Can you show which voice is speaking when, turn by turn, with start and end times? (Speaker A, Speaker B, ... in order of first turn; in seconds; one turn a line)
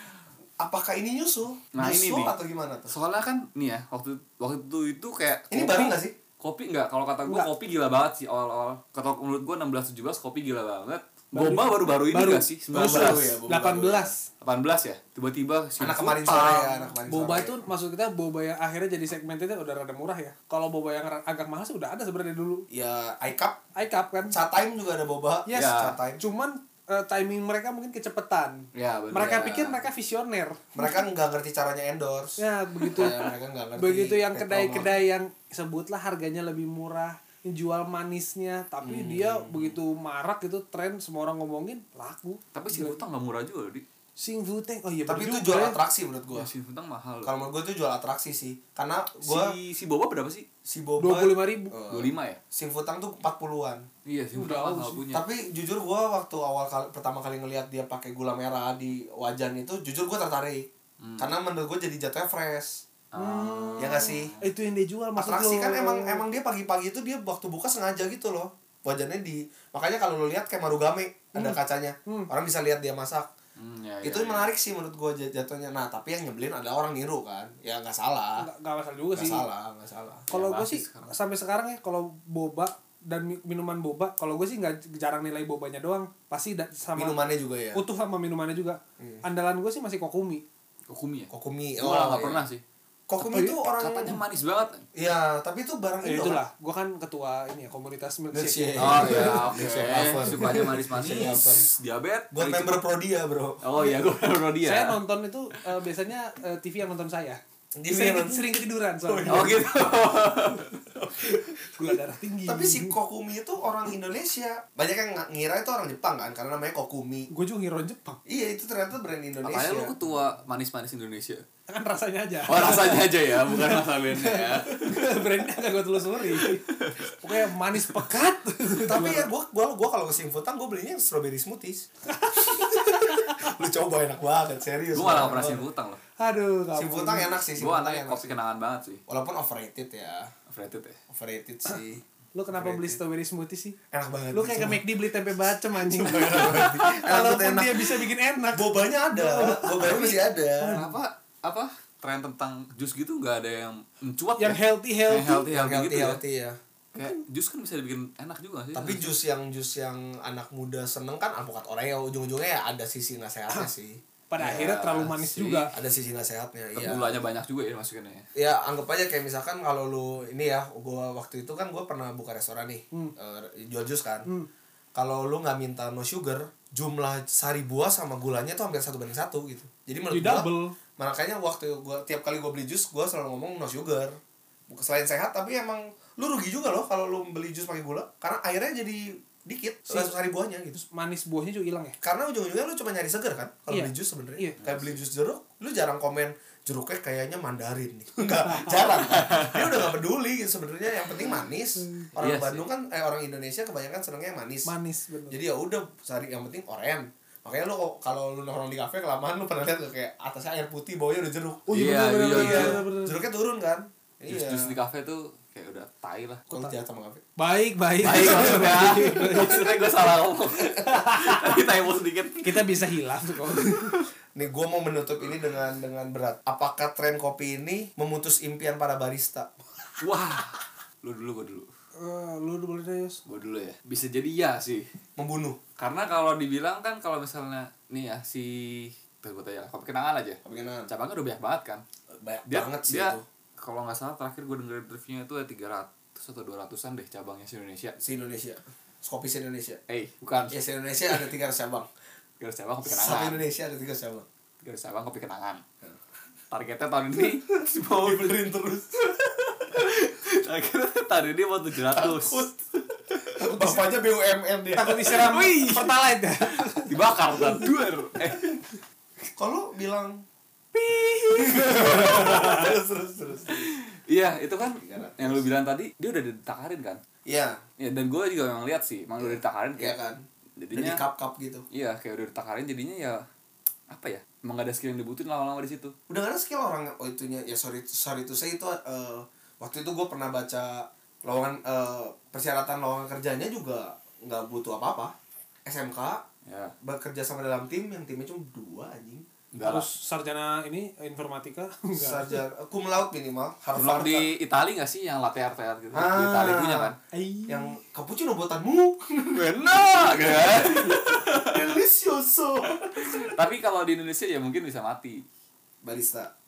Speaker A: 0.6-2.9
Speaker B: 1.7-2.3
Speaker B: 2.9-13.4
Speaker A: 5.5-6.1
Speaker C: 11.3-14.2
Speaker A: 12.7-14.1
Speaker B: 14.4-16.8
Speaker A: 15.8-17.6
Speaker C: 17.1-22.6
Speaker A: 22.7-23.6
Speaker C: 23.7-24.3
Speaker A: 24.3-26.2
Speaker C: 25.5-31.0
Speaker B: 25.5-26.0
Speaker B: 28.7-29.8
Speaker A: 30.7-35.0
Speaker C: 32.4-43.0
Speaker A: 38.8-39.7
Speaker B: 42.5-43.8
Speaker C: 44.2-45.8
Speaker A: 45.0-46.5
Speaker B: 46.3-47.3
Speaker A: 47.2-49.5
Speaker B: 49.2-50.5
Speaker A: 50.6-53.9
Speaker C: 51.0-51.8
Speaker B: 51.9-52.4
Speaker B: 54.0-55.2
Speaker C: 54.4-55.0
Speaker A: 55.1-62.8
Speaker B: 61.0-61.3
Speaker B: 63.1-64.5
Speaker C: 63.1-66.2
Speaker A: 63.8-64.3
Speaker A: 65.2-73.3
Speaker C: 71.3-72.3
Speaker B: 73.5-74.5
Speaker A: 74.0-78.5
Speaker C: 78.4-79.5
Speaker A: 79.1-80.3
Speaker B: 80.3-81.1
Speaker C: 80.3-87.2
Speaker A: 86.9-87.8
Speaker C: 87.7-90.4
Speaker B: 90.9-92.6
Speaker A: 91.3-92.5
Speaker A: 93.1-94.2
Speaker C: 93.2-93.6
Speaker B: 93.8-94.8
Speaker A: 94.9-96.4
Speaker C: 96.0-99.4
Speaker A: 98.3-101.7
Speaker B: 98.8-102.8
Speaker C: 100.2-101.3
Speaker A: 102.3-103.6
Speaker B: 103.6-105.0
Speaker C: 104.6-109.6
Speaker A: 107.8-109.7
Speaker B: 109.3-110.8
Speaker A: 110.9-111.5
Speaker C: 111.7-113.0
Speaker A: 112.5-117.3
Speaker C: 117.3-118.2
Speaker A: 118.2-119.9
Speaker B: 119.4-121.5
Speaker C: 121.7-129.3
Speaker B: 122.5-125.1
Speaker B: 126.3-127.8
Speaker A: 128.8-135.6
Speaker C: 132.1-133.4
Speaker B: 134.9-136.0
Speaker C: 136.2-137.3
Speaker A: 136.7-138.3
Speaker B: 137.6-139.0
Speaker A: 139.1-140.3
Speaker B: 140.5-141.0
Speaker A: 141.1-142.0
Speaker C: 142.3-143.8
Speaker A: 142.5-143.0
Speaker A: 143.9-144.9
Speaker C: 144.3-150.9
Speaker A: 145.6-150.8
Speaker B: 149.8-156.2
Speaker C: 154.4-155.5
Speaker A: 155.5-156.6
Speaker B: 156.9-159.1
Speaker A: 158.7-164.0
Speaker C: 164.3-165.7
Speaker B: 164.4-165.7
Speaker A: 165.7-167.2
Speaker B: 166.7-168.3
Speaker A: 168.3-174.3
Speaker A: 174.9-184.2
Speaker C: 180.1-180.8
Speaker A: 184.7-190.8
Speaker C: 189.9-190.1
Speaker C: 190.7-192.0
Speaker A: 192.0-204.7
Speaker C: 193.7-194.6
Speaker B: 194.6-194.9
Speaker B: 199.2-199.7
Speaker B: 202.2-202.6
Speaker C: 204.6-205.4
Speaker A: 205.3-211.7
Speaker C: 211.7-213.1
Speaker B: 211.7-212.8
Speaker A: 212.2-214.7
Speaker B: 214.3-216.4
Speaker A: 216.5-217.2
Speaker C: 217.4-219.8
Speaker B: 218.0-222.7
Speaker C: 220.8-221.6
Speaker C: 222.4-224.0
Speaker B: 223.6-223.9
Speaker A: 224.3-229.5
Speaker B: 230.0-231.7
Speaker C: 232.0-233.2
Speaker B: 233.2-234.9
Speaker A: 235.2-235.6
Speaker B: 235.8-241.8
Speaker A: 240.4-240.9
Speaker A: 242.2-243.2
Speaker B: 242.5-248.0
Speaker A: 248.0-249.8
Speaker B: 249.9-250.6
Speaker A: 250.5-251.9
Speaker B: 252.4-253.4
Speaker A: 252.8-254.2
Speaker B: 254.6-255.6
Speaker B: 256.5-262.4
Speaker A: 257.2-259.1
Speaker A: 261.7-262.6
Speaker A: 263.3-265.9
Speaker C: 264.7-266.9
Speaker B: 266.8-268.6
Speaker A: 269.3-270.2
Speaker B: 270.7-272.8
Speaker A: 271.3-273.7
Speaker C: 272.2-272.5
Speaker B: 273.5-277.0
Speaker A: 274.7-275.4
Speaker A: 277.2-277.6
Speaker B: 277.8-279.9
Speaker A: 279.2-281.6
Speaker B: 280.6-281.0
Speaker B: 281.7-283.2
Speaker B: 283.9-285.9
Speaker A: 286.1-295.1
Speaker A: 295.6-296.2
Speaker B: 296.4-296.7
Speaker A: 296.8-299.3
Speaker B: 299.5-299.9
Speaker C: 299.6-302.4
Speaker A: 301.9-304.3
Speaker B: 303.7-306.9
Speaker A: 305.9-306.9
Speaker C: 307.1-307.7
Speaker A: 307.5-309.5
Speaker B: 309.3-311.8
Speaker A: 310.4-313.3
Speaker B: 312.8-315.2
Speaker A: 315.8-316.3